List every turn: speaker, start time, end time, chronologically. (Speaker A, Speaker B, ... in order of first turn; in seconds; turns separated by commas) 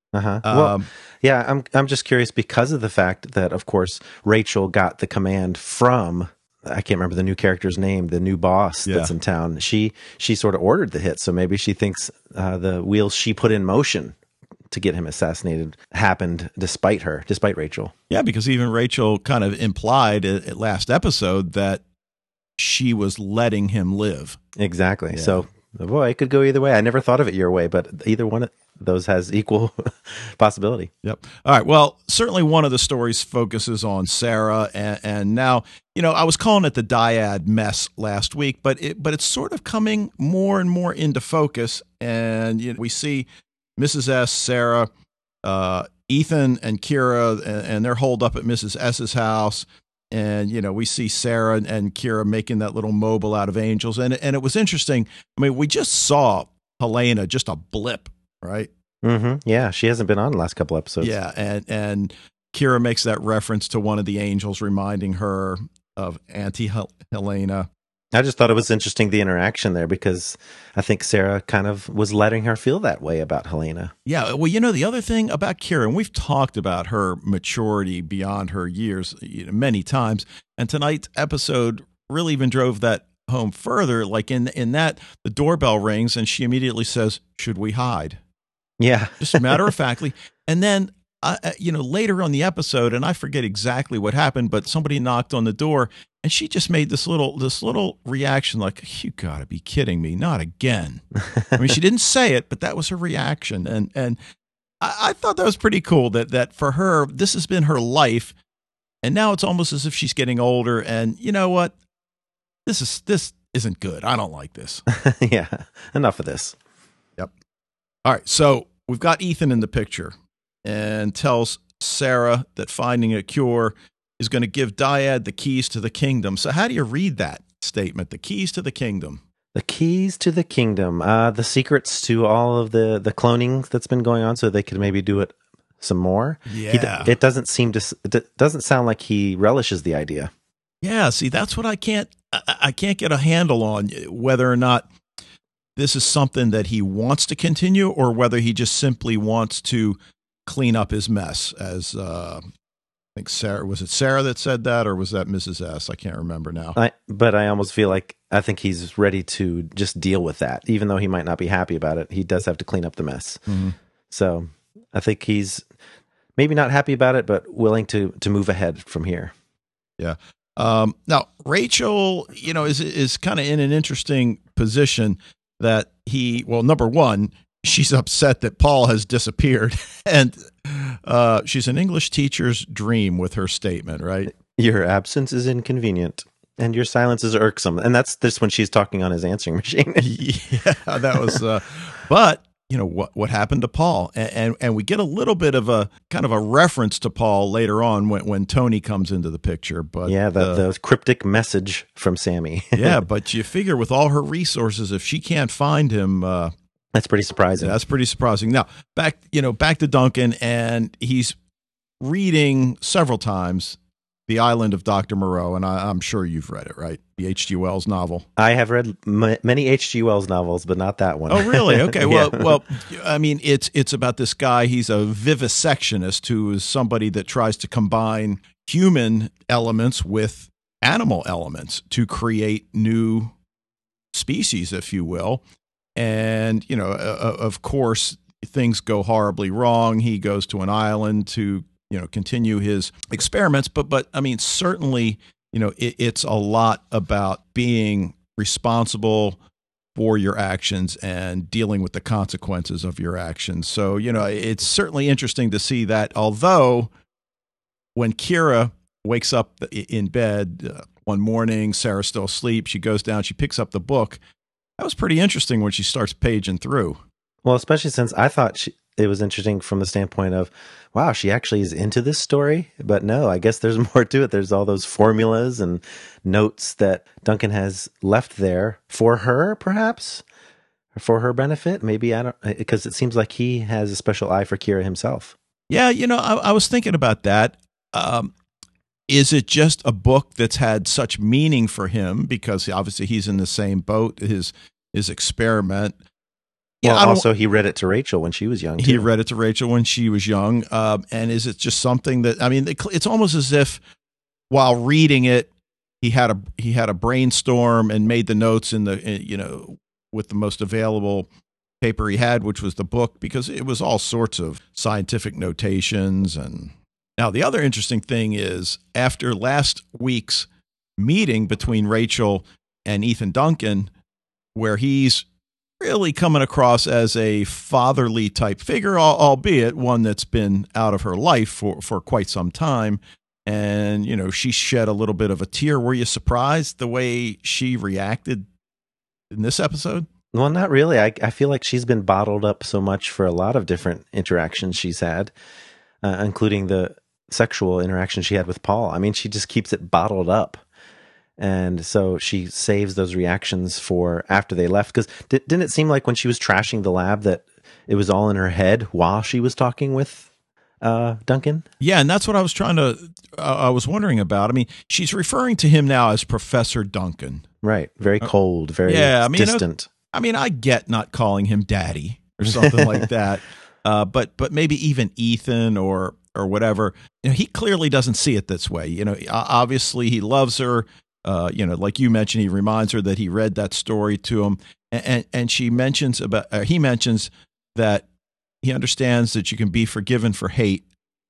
Speaker A: 0.1-14.2, Speaker B: 0.4-0.9, Speaker B: 8.8-9.1, Speaker A: 14.7-17.9, Speaker B: 18.1-21.8, Speaker B: 22.6-24.4, Speaker A: 24.6-30.9, Speaker B: 25.1-25.4, Speaker B: 31.0-44.9, Speaker B: 45.4-58.7, Speaker A: 59.0-61.1, Speaker B: 61.0-67.7, Speaker A: 68.1-73.9, Speaker B: 74.0-88.2, Speaker A: 88.8-89.7, Speaker B: 89.2-104.2, Speaker B: 104.8-108.3, Speaker B: 109.0-111.8, Speaker B: 112.7-114.8, Speaker A: 114.9-116.6, Speaker B: 118.0-129.2, Speaker A: 129.5-140.3, Speaker B: 136.5-137.1, Speaker B: 140.8-144.9, Speaker B: 145.8-152.4, Speaker B: 153.2-156.8, Speaker A: 156.8-163.4, Speaker B: 163.5-163.7, Speaker A: 164.1-165.7, Speaker A: 166.4-169.3, Speaker B: 170.0-184.3, Speaker A: 184.3-190.1, Speaker B: 190.0-200.6, Speaker A: 200.1-203.0, Speaker B: 202.8-206.5, Speaker A: 206.9-207.8, Speaker B: 207.6-211.3, Speaker B: 212.0-218.2, Speaker A: 218.4-222.5, Speaker B: 221.3-233.3, Speaker B: 234.1-235.4, Speaker B: 235.9-249.4, Speaker B: 249.9-256.9, Speaker B: 257.9-264.2, Speaker B: 264.8-267.0, Speaker A: 267.4-280.2, Speaker A: 280.9-285.3, Speaker B: 285.7-288.3, Speaker B: 289.1-295.9, Speaker B: 296.8-297.2, Speaker A: 296.8-299.1, Speaker B: 298.8-303.8, Speaker B: 304.5-305.5, Speaker B: 306.0-311.3, Speaker B: 311.8-323.9, Speaker B: 324.5-325.2, Speaker B: 325.8-338.4, Speaker B: 339.3-340.1, Speaker A: 340.3-345.3, Speaker A: 346.0-350.6, Speaker A: 351.4-360.2, Speaker A: 360.8-361.6, Speaker B: 361.8-367.4, Speaker A: 367.6-369.9, Speaker B: 368.8-388.0, Speaker A: 372.5-373.1, Speaker B: 388.6-390.8